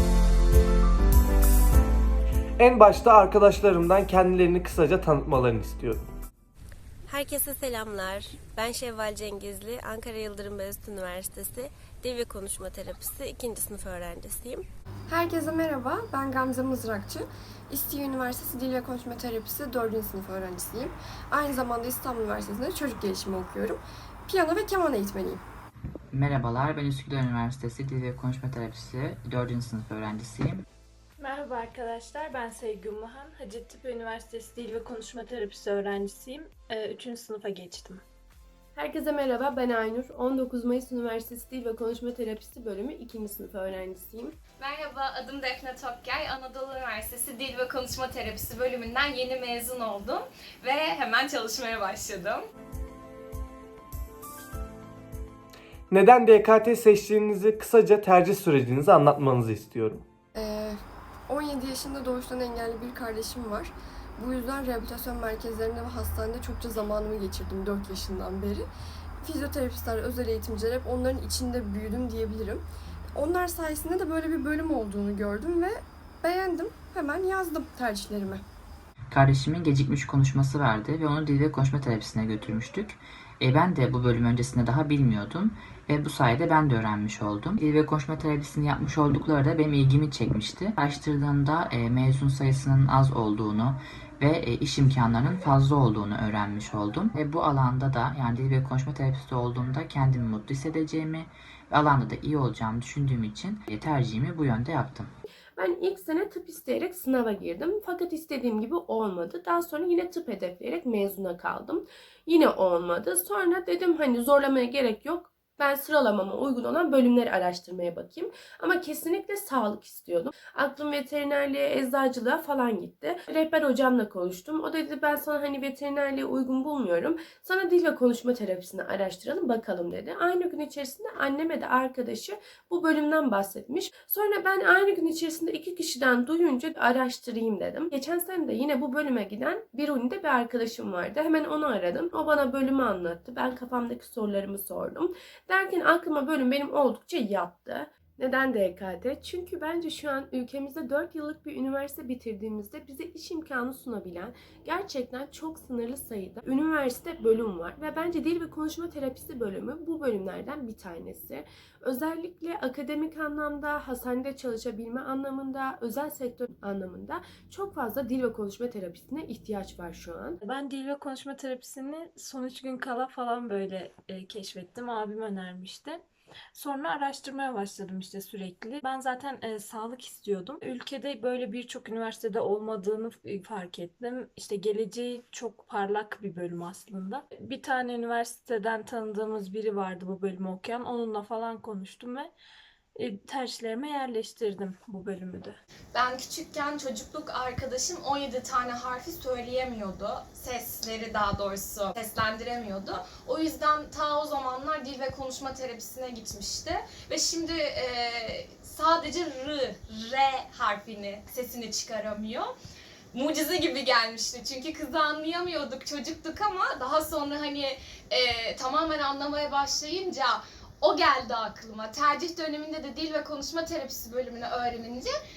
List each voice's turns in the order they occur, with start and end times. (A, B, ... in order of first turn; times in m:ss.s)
0:02.6-0:06.1 A
0:07.1-0:14.7 B
0:15.1-0:25.4 C
0:26.1-0:30.6 D
0:31.2-0:38.0 E
0:38.7-0:44.4 F
0:44.6-0:52.5 G
0:55.9-1:00.0 A
1:00.3-1:08.7 C
1:09.2-1:18.4 C
1:19.1-1:45.1 D
1:45.6-2:50.4 F
2:50.4-2:56.0 E
2:56.5-3:12.3 E
3:13.0-3:15.6 E
3:15.9-3:32.5 G
3:33.1-3:45.1 G